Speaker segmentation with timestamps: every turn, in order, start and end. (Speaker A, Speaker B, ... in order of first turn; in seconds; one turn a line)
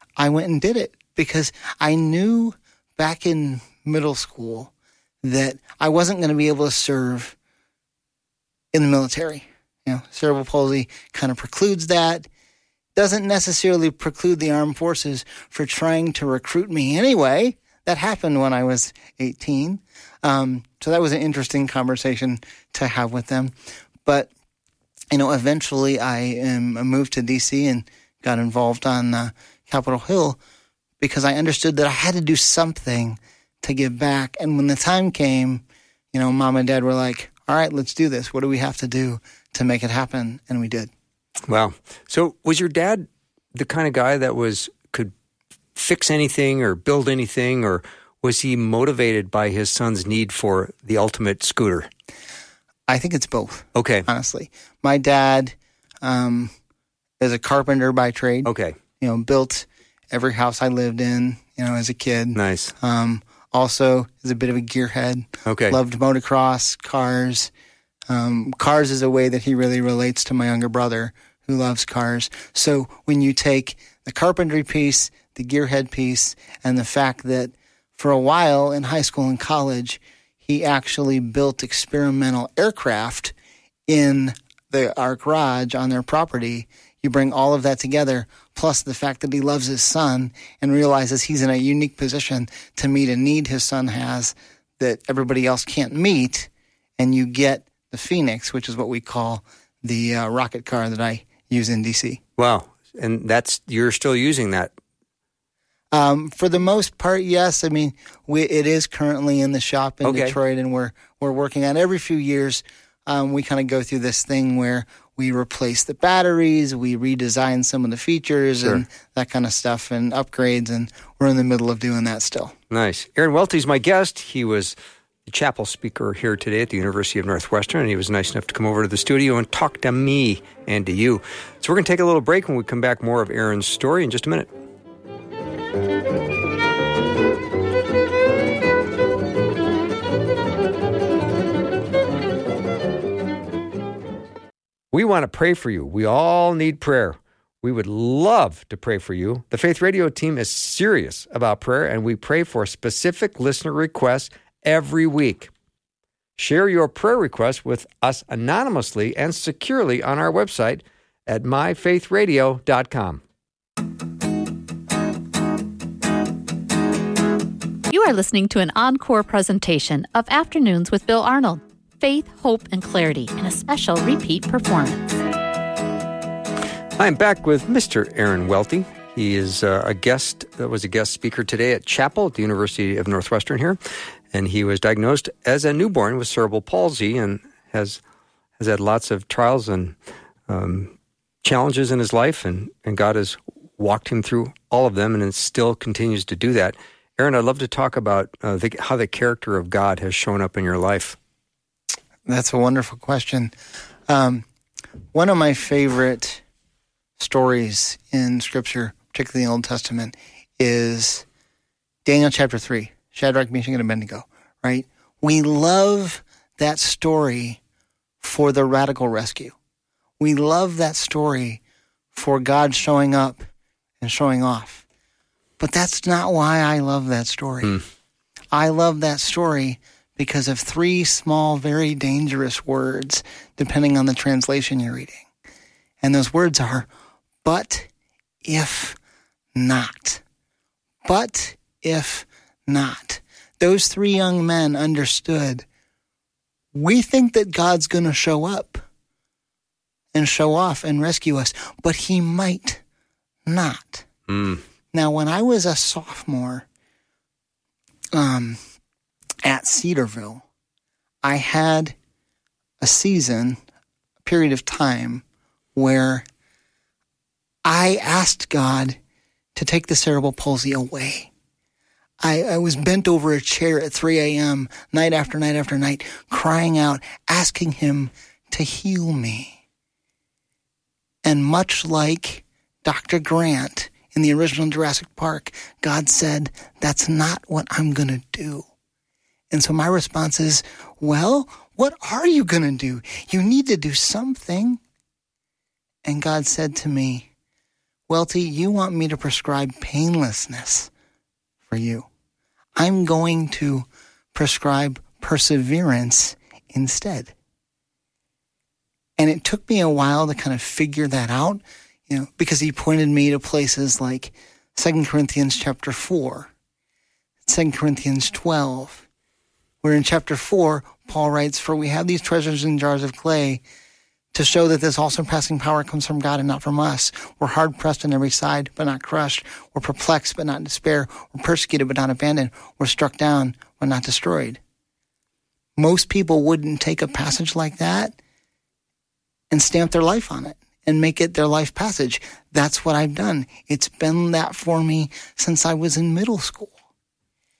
Speaker A: 0.2-4.7
Speaker A: 5.2-7.3
Speaker A: 8.7-12.3
Speaker A: 12.9-23.5
Speaker A: 24.0-24.3
Speaker A: 25.1-30.4
Speaker A: 31.0-40.9
Speaker B: 41.5-45.1
Speaker B: 45.7-51.9
Speaker A: 52.9-56.5
Speaker B: 53.7-54.1
Speaker A: 57.2-67.5
Speaker B: 58.4-58.8
Speaker B: 62.3-62.8
Speaker B: 65.4-65.8
Speaker A: 68.1-83.3
Speaker A: 83.9-102.2
Speaker B: 102.4-104.7
Speaker A: 105.9-122.5
Speaker B: 110.0-110.4
Speaker B: 122.7-124.7
Speaker B: 125.2-134.5
Speaker B: 144.9-155.5
Speaker B: 156.4-163.2
Speaker C: 167.9-175.2
Speaker B: 177.0-183.8
Speaker B: 184.3-188.0
Speaker B: 188.6-189.9
Speaker B: 190.5-201.2
Speaker A: 202.3-203.5
Speaker A: 204.1-204.4
Speaker A: 205.1-206.4
Speaker A: 207.2-211.2
Speaker A: 212.0-217.6
Speaker A: 218.2-219.5
Speaker A: 220.2-221.6
Speaker A: 222.1-223.4
Speaker A: 224.0-224.8
Speaker A: 225.6-227.8
Speaker A: 228.5-235.2
Speaker A: 236.0-236.9
Speaker A: 237.4-237.9
Speaker A: 238.4-239.0
Speaker A: 239.5-240.2
Speaker A: 241.0-245.6
Speaker A: 246.7-248.8
Speaker A: 250.1-252.8
Speaker A: 253.4-254.1
Speaker B: 254.3-254.6
Speaker A: 254.9-256.6
Speaker A: 258.1-258.6
Speaker A: 259.4-260.4
Speaker A: 261.2-261.9
Speaker A: 262.8-263.6
Speaker A: 264.2-265.2
Speaker A: 265.7-266.2
Speaker A: 267.6-269.0
Speaker A: 269.5-271.3
Speaker A: 272.2-279.6
Speaker A: 281.2-288.6
Speaker A: 289.5-294.8
Speaker A: 296.0-297.3
Speaker A: 298.1-300.9
Speaker A: 301.7-302.1
Speaker A: 302.8-307.3
Speaker A: 309.2-316.5
Speaker A: 317.4-319.0
Speaker A: 319.8-323.6
Speaker A: 324.3-334.6
Speaker A: 335.8-338.1
Speaker A: 339.5-346.7